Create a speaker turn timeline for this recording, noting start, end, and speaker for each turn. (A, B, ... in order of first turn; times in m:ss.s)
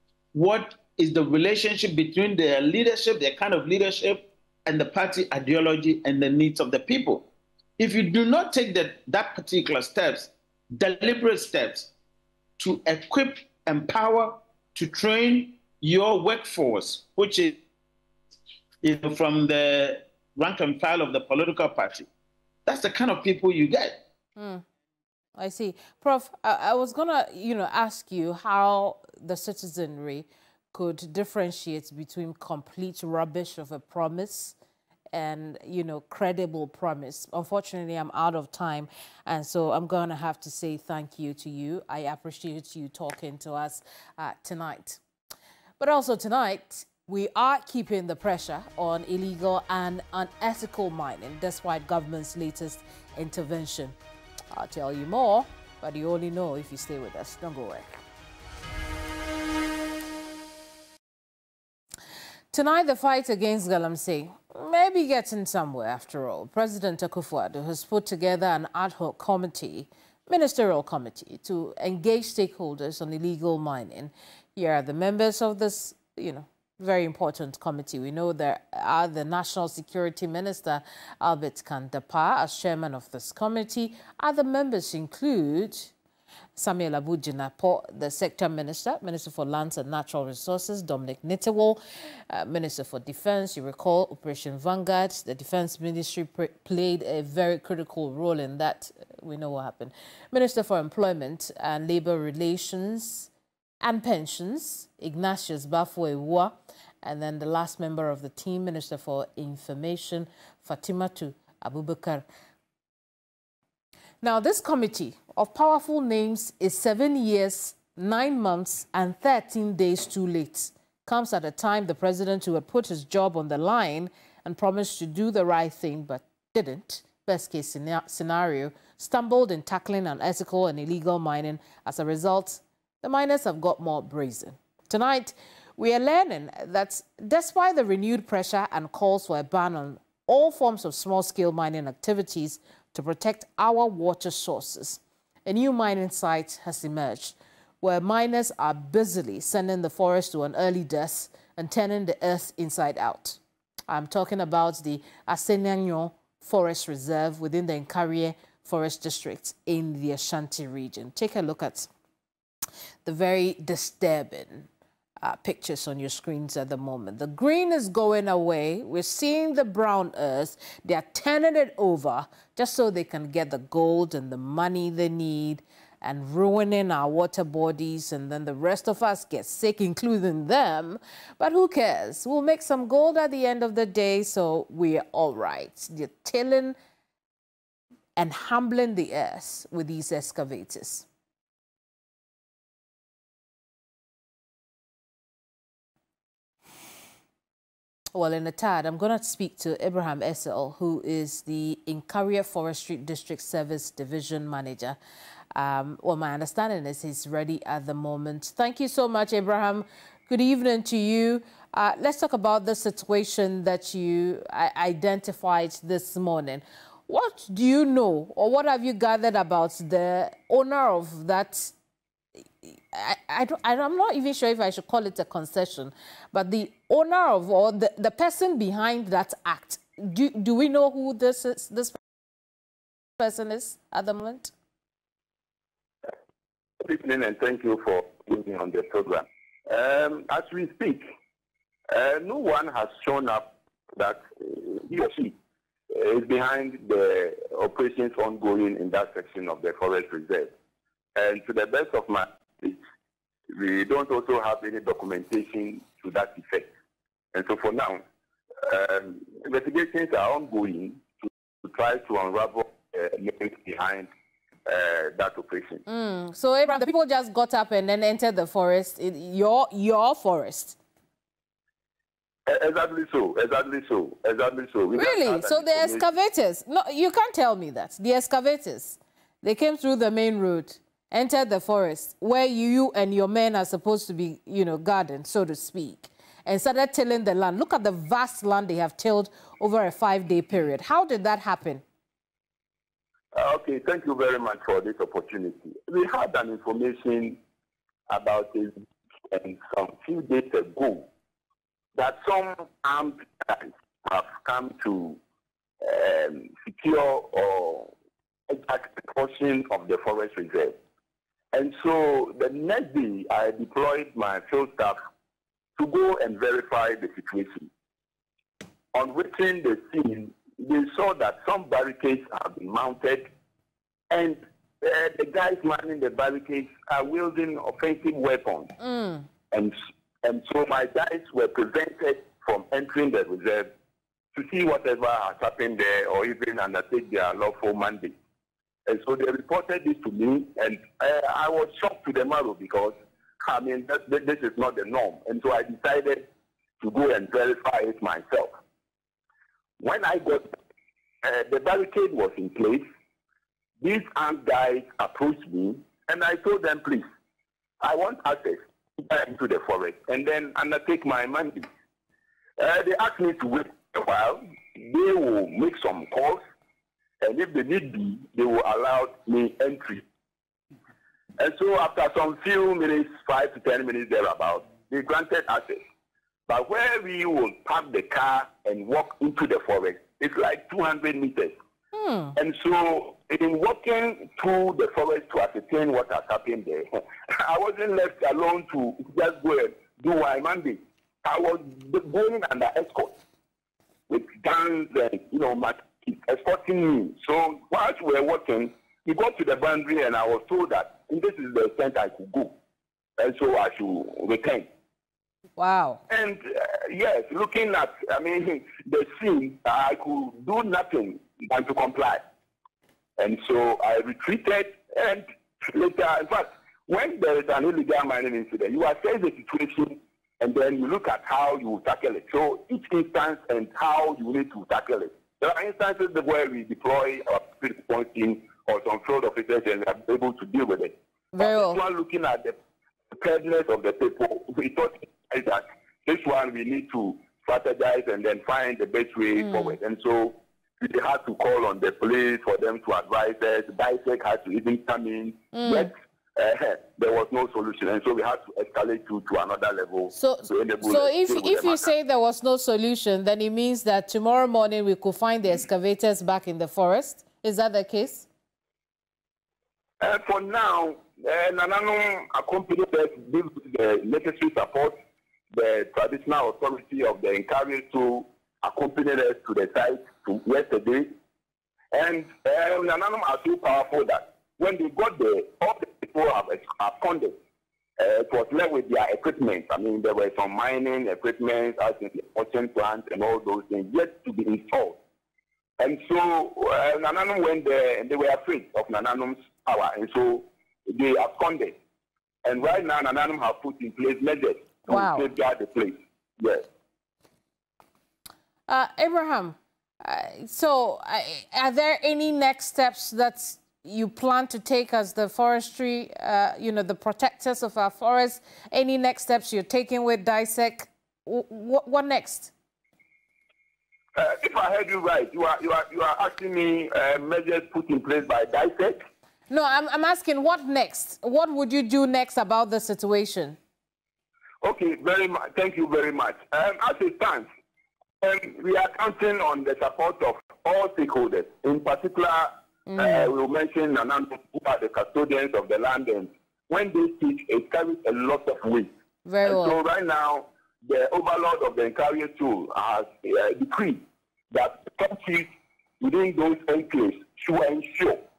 0:00.3-0:07.3 A
0:07.8-0:11.9 A
0:12.6-0:17.6 A
0:18.8-0:22.1 A
0:22.7-0:24.0 A
0:24.4-0:24.6 B
0:25.4-0:34.6 B
0:35.1-0:45.0 B
0:45.8-0:54.0 B
0:54.5-0:58.0 B
1:02.5-1:25.9 B
1:26.6-1:43.3 B
1:43.8-1:52.3 B
1:54.2-2:41.9 B
2:43.0-2:44.7 B
2:45.2-3:06.8 B
3:08.2-3:11.1 B
3:18.2-3:25.0 B
3:25.6-3:41.7 B
3:42.6-3:52.0 B
3:53.2-3:54.5 B
3:56.8-4:01.0 C
4:01.9-4:05.4 C
4:05.9-4:10.5 C
4:11.2-4:12.8 C
4:13.5-4:16.7 C
4:17.3-4:18.0 C
4:18.6-4:24.1 C
4:24.7-4:25.8 C
4:25.9-4:30.8 B
4:32.5-4:36.1 C
4:34.9-4:51.8 B
4:53.4-4:57.4 C
4:58.1-4:58.8 C
4:59.3-5:01.1 C
5:02.0-5:05.2 C
5:05.8-5:07.9 C
5:08.5-5:10.8 C
5:11.5-5:15.0 C
5:15.8-5:17.7 C
5:19.0-5:23.3 C
5:24.1-5:28.7 C
5:28.8-5:29.3 B
5:29.5-5:33.7 C
5:34.3-5:38.2 C
5:38.9-5:46.3 C
5:46.8-5:48.5 C
5:49.8-5:50.5 C
5:51.2-5:52.8 C
5:53.8-5:57.1 C
5:57.8-6:01.7 C
6:02.6-6:06.4 C
6:07.2-6:10.0 C
6:11.4-6:15.8 C
6:16.5-6:21.6 C
6:21.9-6:22.4 B
6:22.4-6:33.2 C
6:34.1-6:42.5 C
6:43.2-6:44.7 C
6:45.6-6:46.0 B
6:46.1-6:52.2 C
6:53.2-7:12.6 C
7:11.3-7:11.8 B
7:13.1-7:31.9 C
7:19.4-7:19.8 B
7:25.5-7:25.9 B
7:30.1-7:38.3 B
7:40.0-7:45.0 C
7:45.5-7:51.1 C
7:51.9-7:57.4 C
7:58.0-8:05.0 C
8:05.8-8:11.8 C
8:12.5-8:16.6 C
8:14.9-8:15.3 B
8:18.7-8:32.5 B
8:34.2-8:39.0 C
8:39.5-8:43.6 B
8:44.6-8:47.5 C
8:48.2-8:58.9 C
8:52.9-8:53.3 B
8:59.3-8:59.8 B
8:59.4-9:05.5 C
9:06.0-9:08.2 C